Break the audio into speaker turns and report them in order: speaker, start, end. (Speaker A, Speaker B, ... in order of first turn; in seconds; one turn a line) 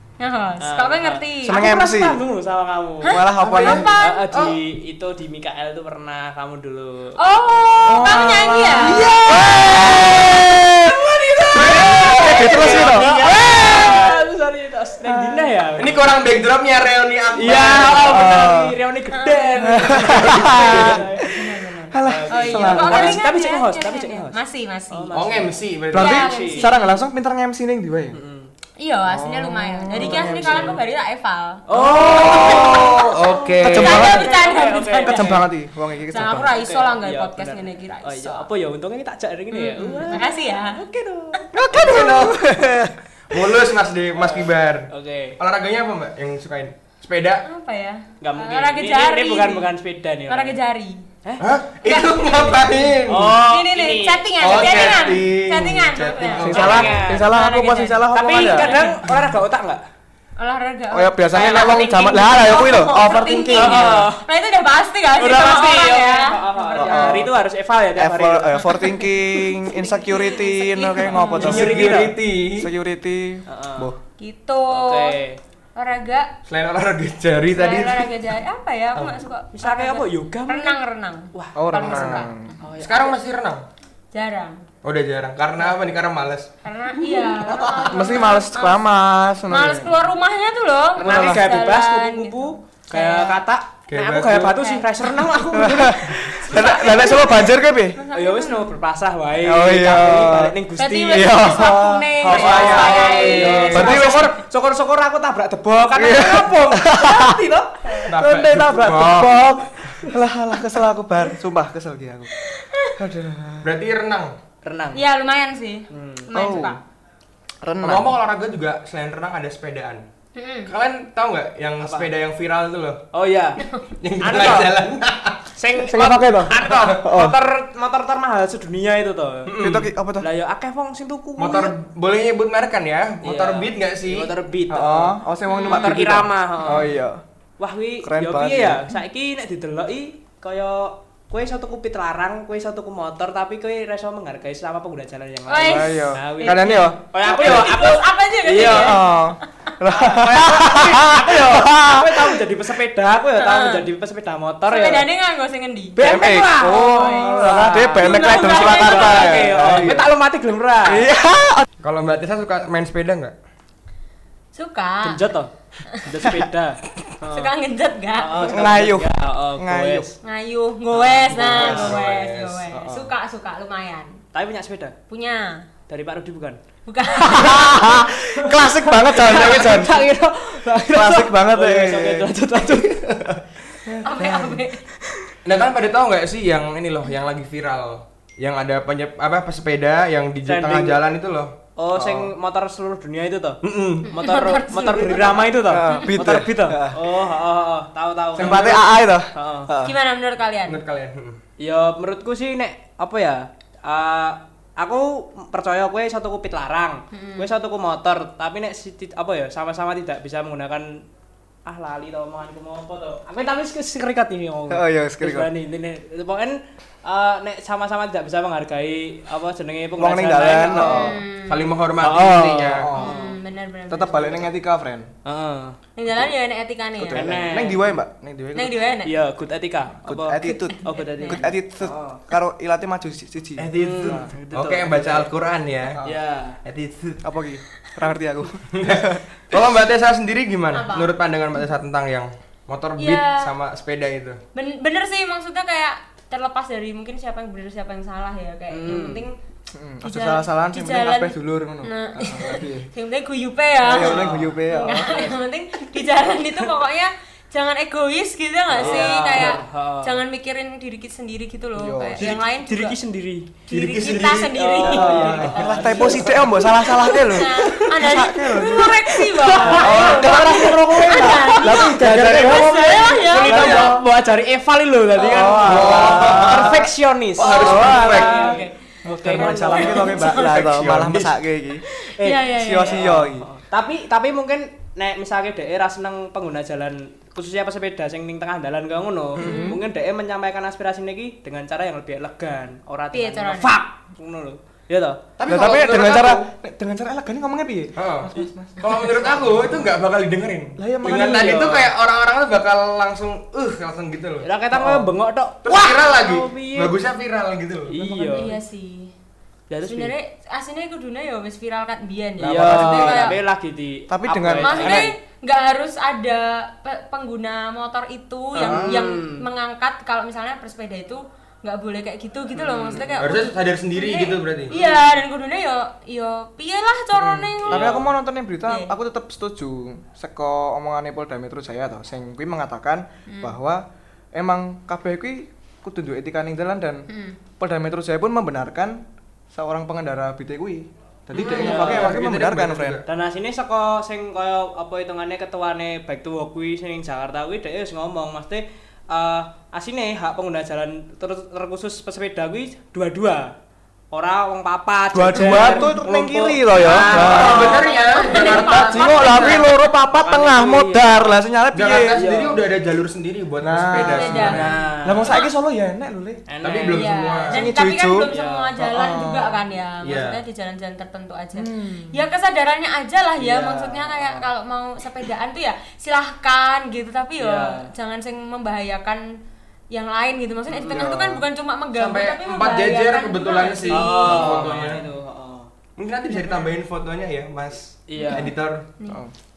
Speaker A: 0.2-1.6
Speaker B: 0.6-3.2
Speaker C: 1.4-2.2
Speaker A: 3.0-4.3
Speaker C: 3.1-3.9
Speaker D: 3.4-4.6
Speaker B: 4.0-7.2
Speaker A: 7.2-9.5
Speaker C: 7.9-11.0
Speaker B: 8.8-16.0
Speaker D: 11.5-13.2
Speaker C: 11.6-14.1
Speaker C: 15.1-15.5
Speaker D: 15.8-18.3
Speaker B: 17.4-21.4
Speaker C: 18.1-18.8
Speaker A: 19.1-25.2
Speaker C: 19.6-21.0
Speaker D: 20.1-20.8
Speaker C: 21.9-23.2
Speaker B: 22.0-24.4
Speaker B: 24.9-26.7
Speaker D: 25.1-26.2
Speaker C: 25.9-28.2
Speaker A: 25.9-27.0
Speaker B: 28.1-28.5
Speaker A: 28.8-33.1
Speaker C: 29.1-30.8
Speaker B: 30.0-30.8
Speaker B: 31.7-35.5
Speaker D: 31.7-34.0
Speaker C: 32.2-32.6
Speaker C: 33.6-34.3
Speaker A: 33.7-35.4
Speaker C: 35.0-36.5
Speaker A: 36.1-38.5
Speaker B: 36.3-41.5
Speaker A: 39.5-40.8
Speaker C: 41.5-42.9
Speaker D: 41.7-42.5
Speaker D: 43.3-47.5
Speaker B: 44.1-45.4
Speaker A: 47.5-49.7
Speaker B: 48.2-50.6
Speaker A: 50.3-51.1
Speaker D: 51.4-53.4
Speaker A: 51.8-52.8
Speaker B: 53.1-54.9
Speaker A: 53.4-59.0
Speaker D: 54.4-56.9
Speaker C: 56.3-58.8
Speaker B: 56.5-57.3
Speaker B: 58.1-59.8
Speaker A: 60.4-67.3
Speaker C: 60.9-64.1
Speaker B: 61.3-62.6
Speaker B: 63.6-64.2
Speaker B: 65.2-68.7
Speaker C: 66.8-67.3
Speaker C: 68.0-74.0
Speaker A: 68.7-71.8
Speaker B: 71.3-72.2
Speaker D: 71.4-72.7
Speaker B: 73.5-73.9
Speaker A: 74.2-75.2
Speaker B: 74.7-75.4
Speaker A: 75.8-76.3
Speaker D: 76.5-78.1
Speaker A: 77.5-82.3
Speaker B: 79.5-80.8
Speaker C: 81.5-82.6
Speaker D: 81.9-82.2
Speaker B: 82.6-83.2
Speaker D: 82.8-83.6
Speaker A: 84.1-84.7
Speaker D: 84.8-86.5
Speaker A: 86.6-88.8
Speaker C: 87.4-90.0
Speaker A: 89.5-93.4
Speaker C: 91.0-91.5
Speaker B: 91.0-96.7
Speaker D: 93.9-94.6
Speaker A: 94.5-95.2
Speaker C: 95.5-98.0
Speaker A: 96.2-98.8
Speaker B: 98.1-101.4
Speaker C: 99.4-100.6
Speaker A: 100.8-104.4
Speaker C: 101.1-102.6
Speaker B: 102.2-108.1
Speaker D: 102.2-104.1
Speaker C: 103.7-104.3
Speaker C: 105.9-107.4
Speaker C: 108.1-112.3
Speaker D: 108.1-109.4
Speaker A: 112.5-113.0
Speaker C: 113.0-113.7
Speaker D: 113.6-114.3
Speaker B: 114.6-115.0
Speaker A: 115.0-116.8
Speaker B: 115.9-116.3
Speaker C: 116.3-116.8
Speaker C: 117.6-118.1
Speaker D: 117.8-120.0
Speaker A: 120.3-120.7
Speaker D: 120.7-123.0
Speaker B: 121.8-122.1
Speaker B: 123.1-123.6
Speaker D: 124.0-125.4
Speaker B: 124.2-124.7
Speaker B: 125.5-129.5
Speaker C: 125.8-127.4
Speaker D: 129.5-129.9
Speaker C: 129.6-130.3
Speaker B: 130.2-131.7
Speaker D: 131.4-134.3
Speaker B: 133.2-136.9
Speaker C: 134.7-137.2
Speaker A: 135.5-136.0
Speaker B: 137.6-149.0
Speaker C: 138.0-138.8
Speaker A: 145.5-149.2
Speaker C: 145.6-147.6
Speaker C: 148.5-152.4
Speaker B: 149.9-155.1
Speaker A: 153.4-153.8
Speaker A: 154.7-156.0
Speaker B: 156.0-161.1
Speaker C: 156.0-160.1
Speaker A: 156.6-159.5
Speaker C: 160.8-161.7
Speaker D: 161.8-163.3
Speaker A: 164.5-165.2
Speaker B: 165.0-167.5
Speaker A: 167.3-168.7
Speaker B: 168.2-170.2
Speaker C: 168.4-170.1
Speaker A: 170.2-174.2
Speaker B: 170.9-171.8
Speaker C: 171.3-172.0
Speaker D: 171.4-172.7
Speaker C: 172.7-173.1
Speaker B: 174.3-174.9
Speaker A: 175.1-175.7
Speaker B: 175.9-176.6
Speaker A: 176.9-178.1
Speaker C: 177.2-180.0
Speaker B: 177.3-183.0
Speaker C: 180.9-182.6
Speaker C: 183.9-184.6
Speaker A: 184.0-184.8
Speaker D: 185.4-191.5
Speaker B: 190.4-191.0
Speaker B: 191.8-198.8
Speaker C: 191.9-192.3
Speaker D: 193.6-194.1
Speaker A: 194.1-196.2
Speaker C: 195.7-197.0
Speaker C: 198.3-199.9
Speaker D: 198.4-198.9
Speaker B: 199.3-199.7
Speaker A: 199.8-200.8
Speaker D: 200.7-201.4
Speaker B: 201.6-211.0
Speaker A: 207.1-207.5
Speaker B: 211.7-221.1
Speaker C: 214.7-215.5
Speaker C: 220.0-221.2
Speaker A: 220.7-221.7
Speaker D: 221.5-222.9
Speaker C: 222.0-223.1
Speaker B: 222.0-223.4
Speaker A: 223.0-224.5
Speaker C: 223.9-225.1
Speaker B: 225.2-225.8
Speaker A: 226.0-227.4
Speaker C: 227.0-228.9
Speaker B: 227.1-227.9
Speaker A: 228.5-229.2
Speaker B: 229.0-232.2
Speaker C: 230.1-234.3
Speaker A: 230.8-231.5
Speaker D: 233.6-236.0
Speaker B: 233.8-235.3
Speaker B: 236.0-236.6
Speaker D: 236.7-237.2
Speaker C: 237.2-239.2
Speaker D: 238.7-244.4
Speaker A: 240.7-241.1
Speaker A: 243.0-243.5
Speaker A: 244.5-249.3
Speaker B: 248.7-249.2
Speaker C: 249.7-252.9
Speaker A: 250.0-263.0
Speaker C: 253.8-255.3
Speaker B: 253.9-254.6
Speaker B: 258.8-260.2
Speaker C: 261.8-262.3
Speaker B: 262.2-263.5
Speaker A: 263.7-265.5
Speaker D: 263.7-266.3
Speaker B: 264.5-267.5
Speaker C: 264.9-272.8
Speaker A: 266.9-273.9
Speaker B: 269.3-280.3
Speaker D: 271.8-274.0
Speaker C: 273.4-274.0
Speaker C: 275.2-276.8
Speaker D: 275.6-278.4
Speaker A: 277.4-278.7
Speaker C: 277.5-278.5
Speaker C: 279.1-281.8
Speaker A: 279.4-280.7
Speaker D: 280.3-281.4
Speaker B: 282.0-295.2
Speaker A: 282.2-283.1
Speaker C: 282.4-283.5
Speaker C: 289.4-289.8
Speaker A: 289.4-289.8
Speaker A: 293.1-293.8
Speaker D: 295.4-296.5
Speaker C: 295.5-299.8
Speaker D: 298.0-305.0
Speaker C: 300.8-301.7
Speaker B: 301.0-301.9
Speaker B: 304.4-306.9
Speaker D: 305.6-307.9
Speaker B: 307.9-308.5
Speaker C: 308.0-308.5
Speaker A: 308.3-309.1
Speaker B: 309.7-310.1
Speaker A: 309.9-313.4
Speaker C: 312.4-313.4
Speaker B: 312.4-315.1
Speaker C: 314.1-315.1
Speaker A: 314.6-328.0
Speaker B: 318.6-319.4
Speaker C: 318.6-319.0
Speaker B: 322.5-323.3
Speaker D: 323.2-324.8
Speaker B: 324.7-325.1
Speaker C: 327.1-333.8
Speaker B: 327.7-328.1
Speaker A: 333.3-333.6
Speaker C: 334.4-337.1
Speaker A: 337.1-337.4
Speaker C: 337.6-339.0
Speaker C: 339.5-343.0
Speaker A: 341.3-341.9
Speaker D: 341.5-343.1
Speaker B: 341.6-342.2
Speaker B: 343.1-353.5
Speaker B: 354.1-357.9
Speaker C: 355.1-362.2
Speaker D: 357.0-359.6
Speaker A: 357.2-359.7
Speaker B: 360.1-361.3
Speaker D: 361.7-364.7
Speaker B: 362.1-362.6
Speaker C: 363.6-366.4
Speaker A: 363.9-365.5
Speaker B: 364.4-365.4
Speaker B: 366.5-367.1
Speaker D: 366.6-367.7
Speaker A: 366.9-379.3
Speaker C: 367.5-369.6
Speaker B: 368.2-368.7
Speaker D: 370.0-370.4
Speaker C: 371.6-372.2
Speaker B: 373.4-374.5
Speaker B: 377.4-377.9
Speaker A: 379.9-384.7
Speaker C: 380.8-381.4
Speaker D: 381.9-385.1
Speaker B: 383.9-385.7
Speaker D: 386.0-388.9
Speaker B: 388.1-388.6
Speaker A: 388.2-389.2
Speaker C: 389.1-389.4